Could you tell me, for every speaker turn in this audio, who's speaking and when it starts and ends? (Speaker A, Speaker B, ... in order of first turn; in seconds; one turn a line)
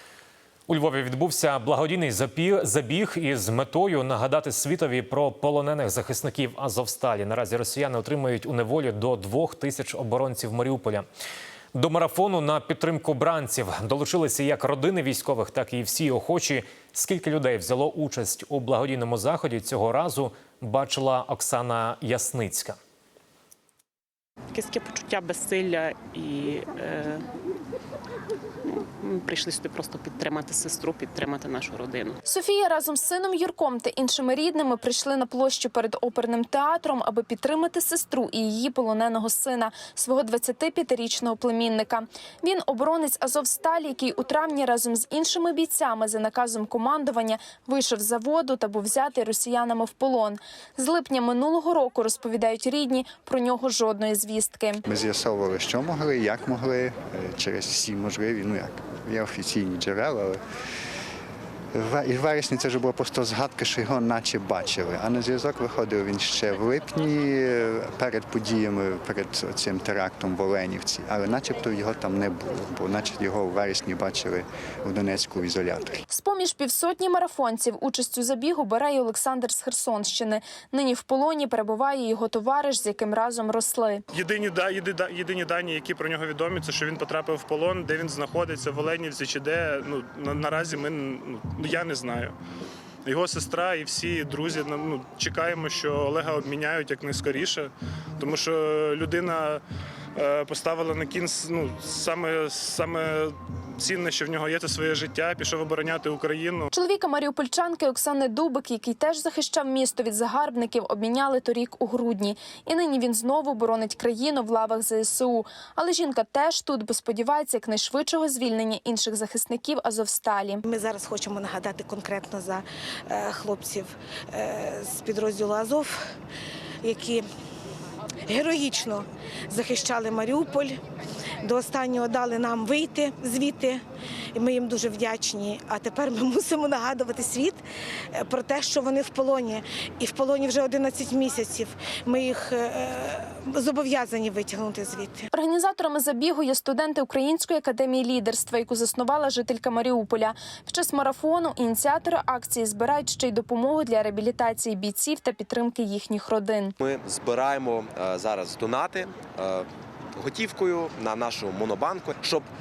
Speaker A: 0.7-11.1
Speaker A: 11.7-22.8
Speaker B: 24.5-27.3
Speaker B: 28.6-32.2
Speaker C: 32.2-54.8
Speaker D: 54.9-60.4
Speaker D: 61.7-76.0
Speaker C: 76.1-84.0
Speaker E: 84.1-92.3
Speaker E: 93.0-97.7
Speaker E: 98.2-99.6
Speaker E: 100.2-106.7
Speaker C: 106.7-120.6
Speaker F: 120.7-126.0
Speaker F: 126.8-127.2
Speaker F: 128.3-130.8
Speaker F: 131.4-145.3
Speaker C: 145.3-156.8
Speaker G: 156.8-162.5